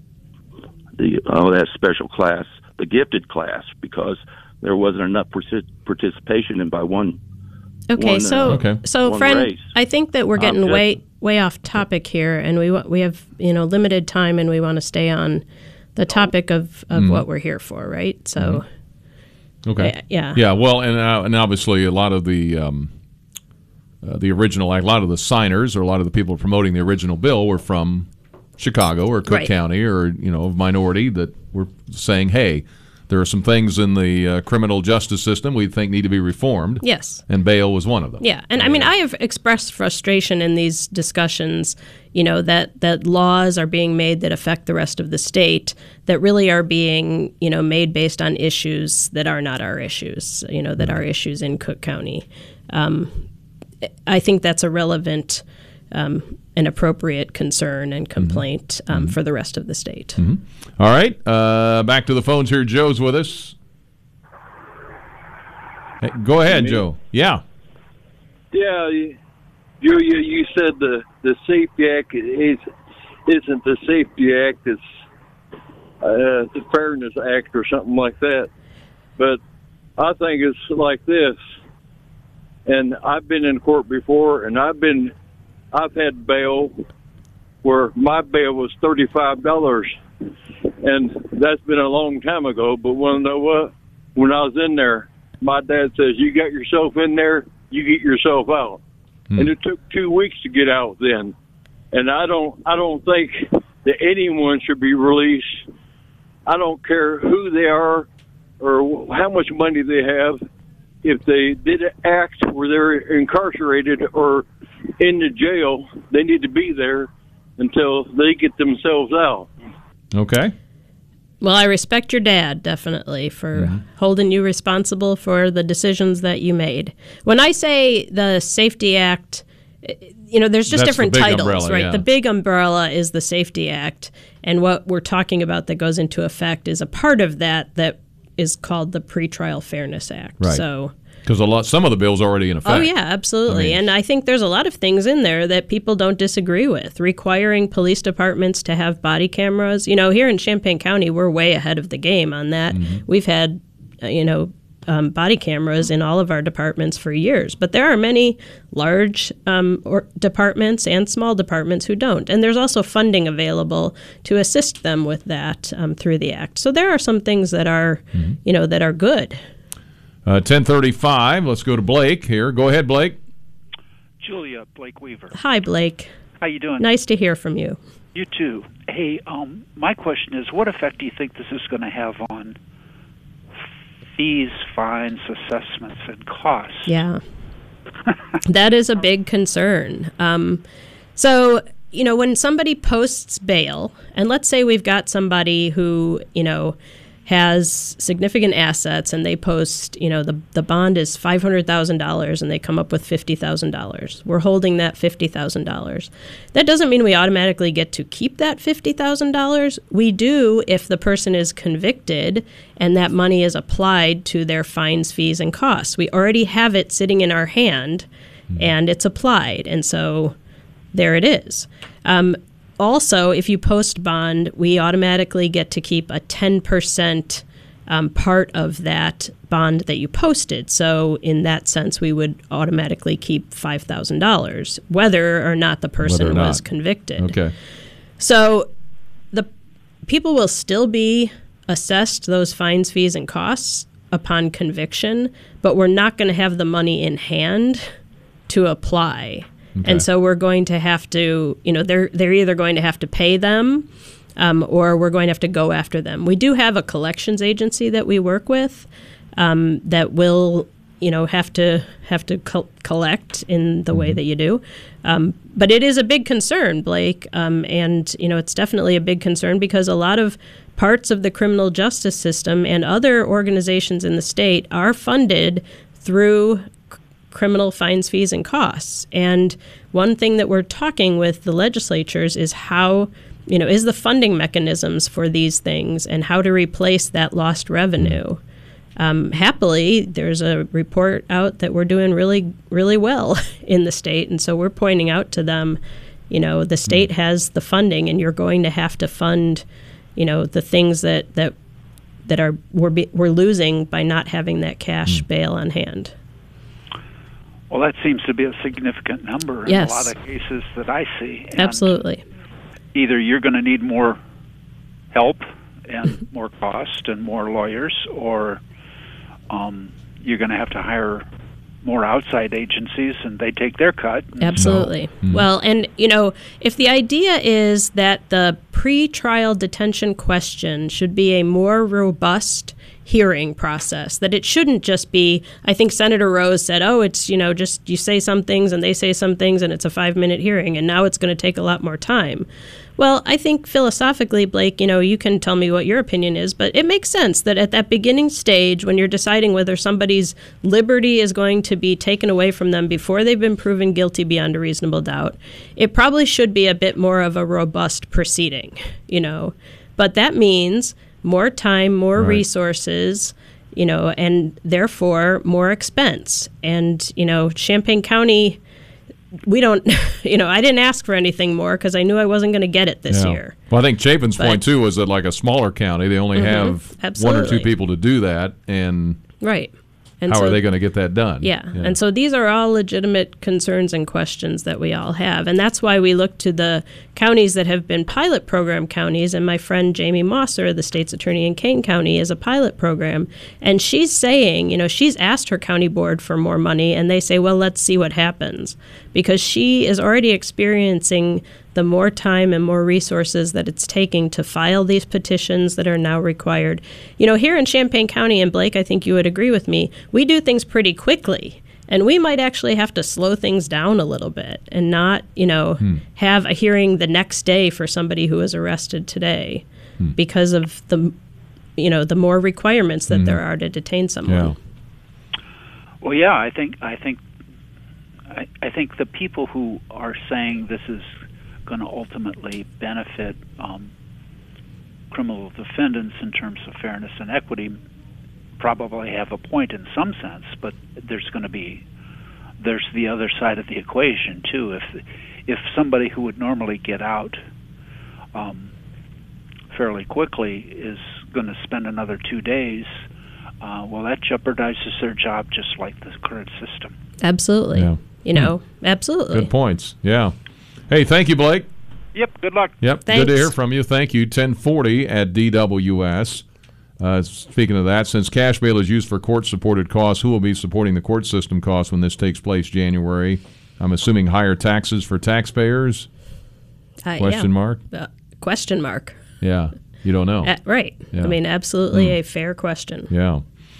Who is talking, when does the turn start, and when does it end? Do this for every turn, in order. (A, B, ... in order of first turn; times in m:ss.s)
0:01.0-0:07.2 A
0:07.9-0:15.4 B
0:07.9-0:09.7 A
0:08.4-0:08.8 C
0:10.4-0:10.9 C
0:10.4-0:10.8 A
0:16.0-0:18.6 B
0:16.9-0:17.2 C
0:18.4-0:18.6 C
0:19.6-0:22.9 C
0:19.8-0:20.4 B
0:24.0-0:28.1 C
0:28.6-0:38.9 C
0:36.8-0:37.2 B
0:38.2-0:53.2 B
0:54.0-1:00.2 B
0:58.2-0:59.2 C
1:00.2-1:03.6 C
1:06.0-1:07.4 C
1:06.5-1:06.8 D
1:08.5-1:09.2 D
1:09.8-1:12.6 D
1:13.2-1:14.8 D
1:16.0-1:18.5 D
1:20.0-1:21.4 D
1:22.6-1:25.1 D
1:25.7-1:26.8 D
1:27.6-1:30.0 D
1:30.8-1:38.8 D
1:39.4-1:41.3 D
1:41.9-1:45.6 D
1:46.4-1:48.1 D
1:48.6-1:50.4 D
1:51.0-1:54.5 D
1:55.0-1:59.5 D
2:00.1-2:00.5 C
2:01.4-2:20.9 B
2:03.5-2:03.8 C
2:10.7-2:12.0 C
2:21.2-2:22.9 C
2:22.6-2:49.4 B
2:23.4-2:23.9 C
2:32.7-2:33.0 C
2:50.2-2:53.2 C
2:54.2-2:55.4 E
2:55.3-2:56.1 B
2:56.4-2:56.9 E
2:56.8-2:57.8 B
2:58.1-3:02.6 E
3:04.1-3:06.9 E
3:06.8-3:07.2 B
3:08.4-3:10.6 B
3:11.2-3:38.0 B
3:38.6-3:40.3 B
3:40.9-3:57.4 B
3:56.0-3:56.6 C
3:57.2-3:57.5 C
3:58.2-3:58.7 B
4:00.0-4:07.9 B
4:08.5-4:48.4 B
4:09.8-4:10.0 C
4:23.9-4:24.2 C
4:49.0-4:59.6 B
5:00.2-5:01.5 B
5:02.2-5:06.1 B
5:07.7-5:12.0 E
5:09.7-5:10.1 B
5:11.6-5:12.2 B
5:12.9-5:14.2 E
5:15.1-5:18.6 E
5:19.5-5:21.2 E
5:21.8-5:24.8 E
5:24.4-6:08.6 B
5:24.6-5:25.4 C
6:02.2-6:02.4 C
6:09.4-6:13.6 B
6:13.1-6:19.2 C
6:14.4-6:14.7 B
6:16.3-6:17.7 B
6:19.4-6:20.6 B
6:20.3-6:22.0 C
6:21.4-6:59.6 B
7:00.2-7:01.1 B
7:01.8-7:04.6 B
7:03.1-7:03.4 C
7:04.2-7:04.5 C
7:06.0-7:07.2 E
7:08.3-7:13.9 E
7:15.1-7:17.8 E
7:18.6-7:21.8 E
7:22.6-7:27.4 E
7:28.3-7:28.7 E
7:29.7-7:33.0 E
7:33.6-7:36.9 E
7:37.2-7:39.5 B
7:37.8-7:38.5 C
7:39.3-7:40.3 C
7:40.9-7:41.7 C
7:42.1-7:42.8 E
7:42.8-7:46.4 C
7:43.0-7:43.5 B
7:47.0-7:56.1 C
7:57.0-7:59.2 B
7:57.2-7:57.8 C
7:59.4-8:00.5 C
8:00.4-8:03.1 B
8:01.1-8:01.4 C
8:03.1-8:03.4 C